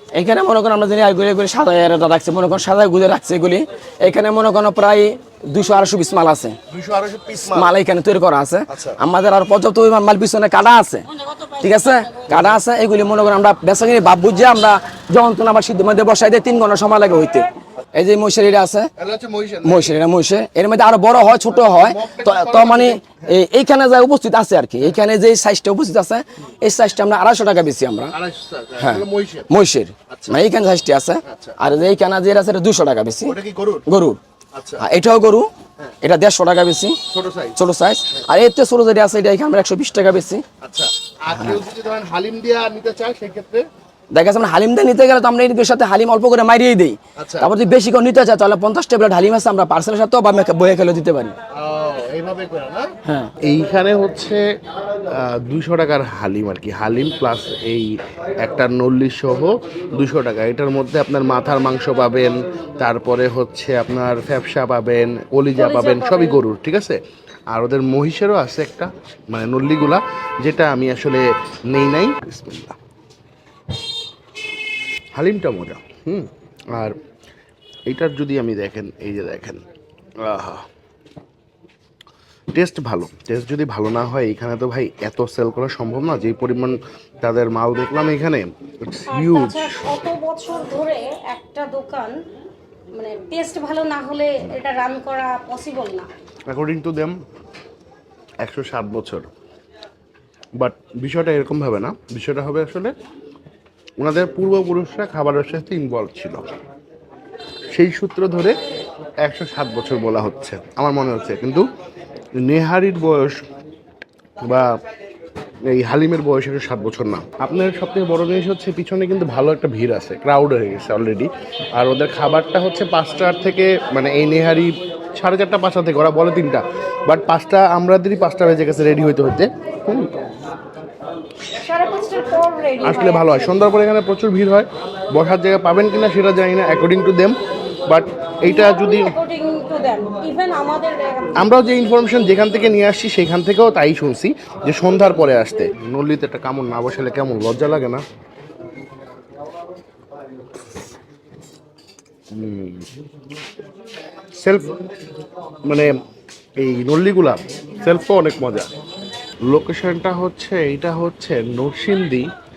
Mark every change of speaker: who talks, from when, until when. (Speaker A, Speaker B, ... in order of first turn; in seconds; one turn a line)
Speaker A: 0.1-6.5
Speaker B: 6.7-7.7
Speaker A: 7.5-11.1
Speaker B: 8.7-9.0
Speaker A: 11.6-18.9
Speaker B: 18.9-19.9
Speaker A: 19.6-28.1
Speaker B: 21.5-23.3
Speaker B: 28.1-29.5
Speaker A: 28.8-33.3
Speaker B: 30.1-30.4
Speaker B: 31.2-31.6
Speaker B: 33.2-33.9
Speaker A: 33.9-34.2
Speaker B: 34.5-34.8
Speaker A: 34.8-35.5
Speaker A: 36.0-37.0
Speaker B: 37.1-37.6
Speaker A: 37.5-40.4
Speaker B: 40.6-43.6
Speaker A: 41.3-41.6
Speaker A: 44.1-51.4
Speaker B: 47.2-47.5
Speaker B: 51.5-54.4
Speaker A: 53.0-53.3
Speaker B: 55.1-67.0
Speaker C: 65.5-66.4
Speaker B: 67.5-72.8
Speaker B: 75.2-76.9
Speaker B: 77.9-79.6
Speaker B: 80.2-80.7
Speaker B: 82.5-89.9
Speaker C: 89.1-92.2
Speaker C: 92.9-96.1
Speaker B: 96.5-97.2
Speaker B: 98.4-99.3
Speaker B: 100.6-102.9
Speaker B: 104.0-106.5
Speaker B: 107.7-108.5
Speaker B: 109.2-111.7
Speaker B: 112.4-113.4
Speaker B: 115.7-130.1
Speaker C: 131.6-133.5
Speaker B: 132.8-139.2
Speaker C: 138.5-141.4
Speaker B: 141.3-148.0
Speaker B: 152.3-152.9
Speaker B: 154.4-154.8
Speaker B: 156.6-158.7
Speaker B: 159.5-162.3